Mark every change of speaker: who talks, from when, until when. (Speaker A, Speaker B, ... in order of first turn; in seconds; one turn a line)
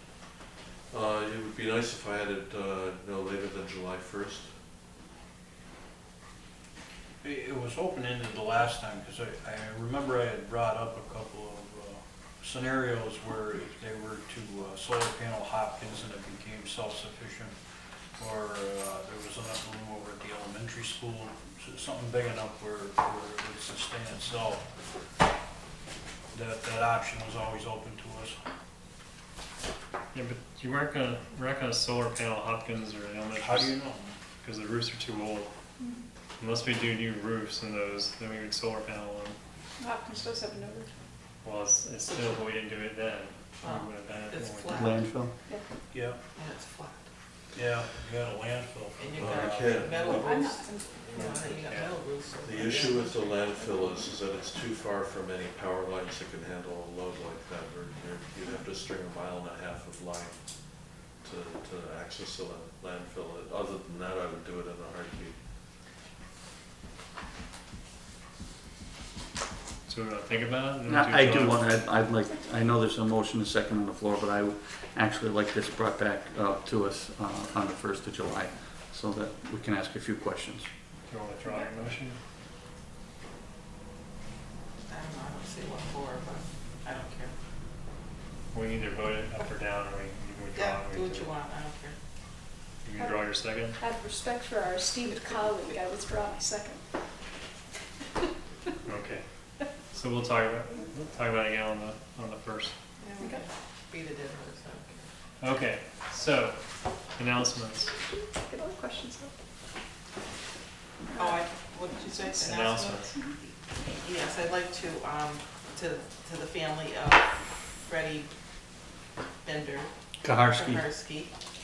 Speaker A: 0.9-4.5
Speaker B: 7.2-17.6
Speaker B: 18.2-24.6
Speaker B: 26.3-28.4
Speaker C: 30.1-33.7
Speaker B: 33.4-34.2
Speaker C: 34.4-35.5
Speaker D: 35.8-36.0
Speaker C: 36.4-39.4
Speaker D: 39.8-40.9
Speaker C: 41.4-45.0
Speaker E: 42.0-42.4
Speaker E: 43.6-45.0
Speaker F: 44.7-45.3
Speaker B: 45.9-46.2
Speaker E: 46.3-47.0
Speaker B: 47.5-50.2
Speaker E: 49.0-53.4
Speaker A: 49.2-50.3
Speaker D: 50.2-51.0
Speaker C: 51.1-51.9
Speaker A: 52.4-60.4
Speaker A: 61.2-65.3
Speaker C: 69.8-71.7
Speaker F: 70.9-80.7
Speaker C: 81.1-82.2
Speaker E: 84.9-87.3
Speaker C: 88.5-91.3
Speaker E: 90.5-92.0
Speaker C: 92.8-93.8
Speaker D: 93.8-96.8
Speaker C: 98.8-99.2
Speaker C: 99.9-102.7
Speaker E: 103.0-105.1
Speaker C: 105.4-106.6
Speaker C: 107.1-107.9
Speaker D: 108.4-109.3
Speaker E: 111.1-113.1
Speaker C: 112.3-113.1
Speaker E: 113.7-118.3
Speaker E: 119.4-119.9
Speaker F: 120.2-120.8
Speaker E: 120.5-121.3